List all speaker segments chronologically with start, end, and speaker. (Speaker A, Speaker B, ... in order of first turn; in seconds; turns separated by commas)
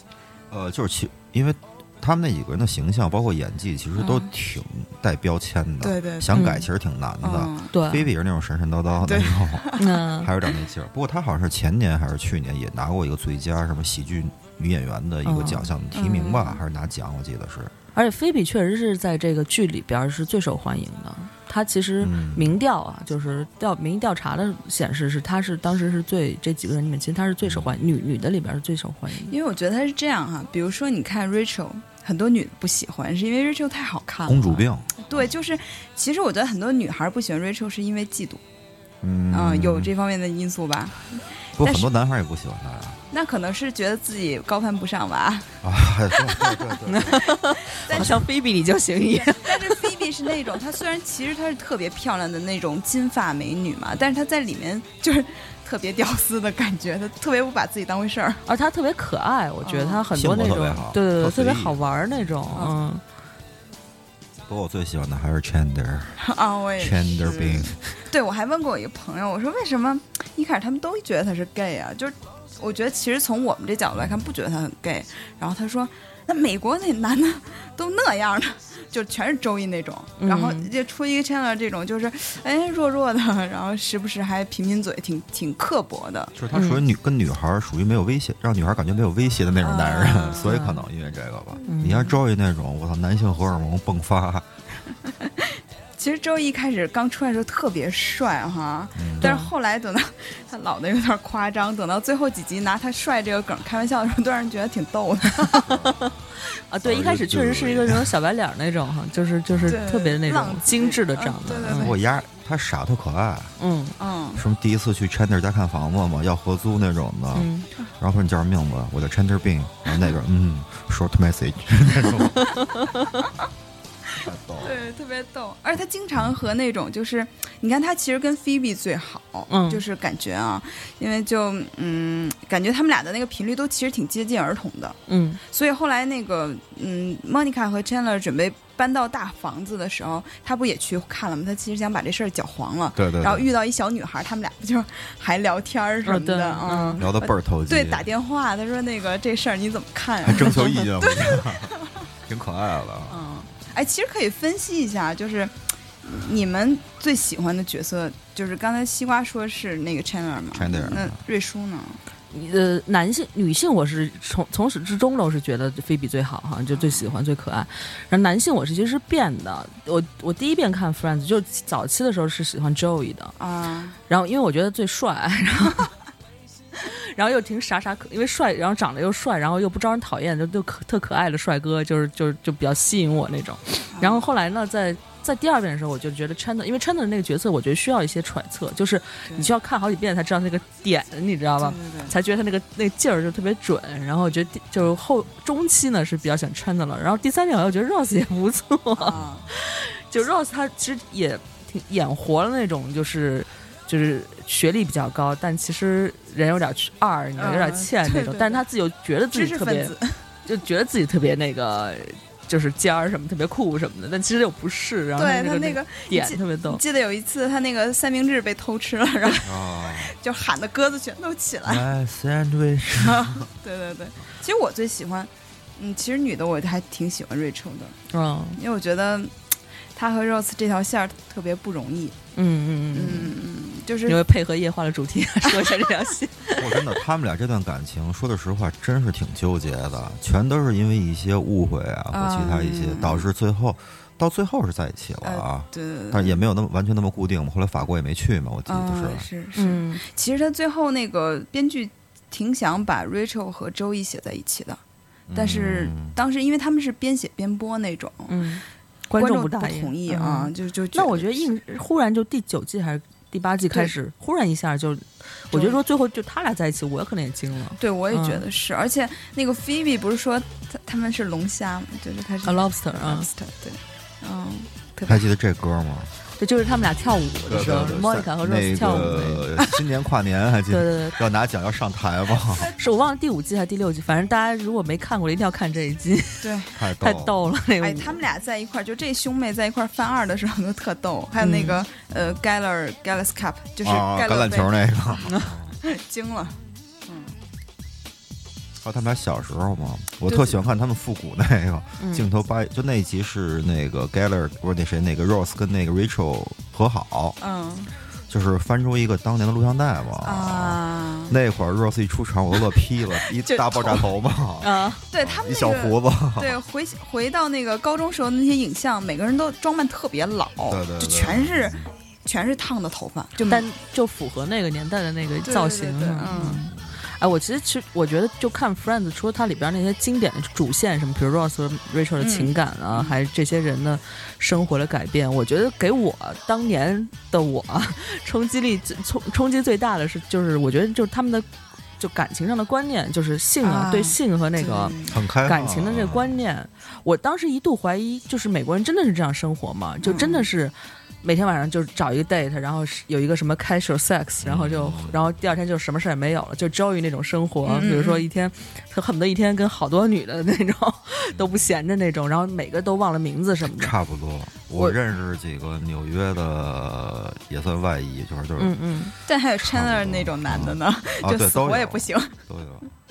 Speaker A: 0.5-17.7, Speaker B: 4.0-4.3, Speaker B: 5.8-6.7, Speaker C: 6.3-6.6, Speaker B: 7.2-7.7, Speaker C: 7.7-8.1, Speaker B: 9.0-9.9, Speaker C: 9.8-10.3, Speaker C: 15.2-15.7, Speaker B: 15.9-16.6, Speaker C: 17.9-29.3, Speaker A: 22.0-22.6, Speaker A: 27.4-27.8, Speaker B: 29.3-38.4, Speaker A: 34.2-35.0, Speaker A: 39.0-39.9, Speaker B: 39.3-41.9, Speaker A: 41.6-43.0, Speaker B: 43.1-45.5, Speaker A: 45.6-47.3, Speaker B: 46.4-46.7, Speaker C: 46.9-49.8, Speaker B: 47.8-48.2, Speaker A: 47.9-48.2, Speaker B: 49.1-58.4, Speaker C: 58.5-63.0, Speaker B: 59.6-60.0, Speaker A: 60.1-62.3, Speaker B: 62.5-62.8, Speaker A: 64.5-66.2, Speaker B: 66.2-86.3, Speaker A: 66.8-67.8, Speaker C: 80.2-80.7, Speaker A: 86.3-94.5, Speaker C: 86.5-86.8, Speaker B: 89.6-90.6, Speaker C: 90.4-90.8, Speaker C: 91.7-92.1, Speaker B: 95.1-105.7, Speaker A: 99.0-99.3, Speaker C: 99.2-99.5, Speaker C: 105.5-111.9, Speaker A: 105.6-106.1, Speaker A: 106.8-108.1, Speaker A: 109.5-109.8, Speaker B: 109.7-112.0, Speaker A: 111.7-113.5, Speaker C: 113.6-113.9, Speaker B: 114.0-114.4, Speaker A: 114.3-122.6, Speaker C: 117.3-117.7, Speaker C: 122.5-122.9, Speaker A: 124.2-124.8, Speaker B: 124.6-152.0, Speaker C: 129.5-129.8, Speaker C: 135.1-135.4, Speaker A: 142.9-143.5, Speaker C: 146.1-147.0, Speaker A: 147.0-148.1, Speaker A: 150.2-151.7, Speaker A: 152.2-153.2, Speaker B: 153.1-162.0, Speaker A: 160.5-161.2, Speaker C: 162.3-173.3, Speaker B: 166.7-167.1, Speaker B: 173.4-174.0, Speaker C: 174.1-175.9, Speaker C: 176.8-209.9, Speaker B: 183.9-184.2, Speaker B: 191.6-192.1, Speaker B: 198.9-199.4, Speaker A: 199.1-199.4, Speaker B: 207.4-208.6, Speaker B: 209.3-210.2, Speaker C: 210.4-216.8, Speaker B: 215.2-221.8, Speaker A: 219.4-220.1, Speaker A: 221.6-223.5, Speaker B: 223.1-227.9, Speaker C: 228.1-228.6, Speaker B: 228.6-229.3, Speaker B: 229.9-232.2, Speaker C: 232.3-233.3, Speaker B: 232.9-234.2, Speaker C: 234.1-237.0, Speaker B: 235.5-235.9, Speaker A: 236.5-249.3, Speaker B: 242.1-243.3, Speaker B: 245.2-246.4, Speaker B: 248.7-254.8, Speaker C: 249.6-250.0, Speaker A: 255.3-256.2, Speaker B: 255.3-258.4, Speaker C: 258.3-268.4, Speaker B: 259.1-261.4, Speaker B: 265.5-265.8, Speaker B: 267.8-275.2, Speaker C: 272.4-273.3, Speaker A: 275.1-276.1, Speaker C: 276.4-279.5, Speaker A: 277.4-282.7, Speaker C: 280.7-281.2, Speaker C: 282.8-288.2, Speaker B: 286.4-286.7, Speaker A: 286.7-287.4, Speaker B: 287.8-295.2, Speaker C: 291.4-291.8, Speaker A: 293.8-295.8, Speaker B: 295.8-297.3, Speaker A: 298.8-307.4, Speaker B: 300.3-300.6, Speaker C: 302.0-302.3, Speaker B: 307.4-307.9, Speaker A: 308.3-316.6, Speaker B: 310.2-311.4, Speaker B: 313.2-314.0, Speaker C: 314.6-315.0, Speaker B: 315.1-323.7, Speaker A: 320.7-321.9, Speaker C: 323.5-363.9, Speaker B: 325.4-326.6, Speaker A: 326.7-327.0, Speaker B: 332.2-333.2, Speaker B: 343.6-345.2, Speaker A: 345.1-346.4, Speaker B: 350.0-350.5, Speaker A: 354.4-355.2, Speaker B: 357.6-358.2, Speaker A: 361.3-361.6, Speaker A: 363.6-368.8, Speaker C: 368.6-369.1, Speaker B: 369.2-372.3, Speaker A: 369.6-372.9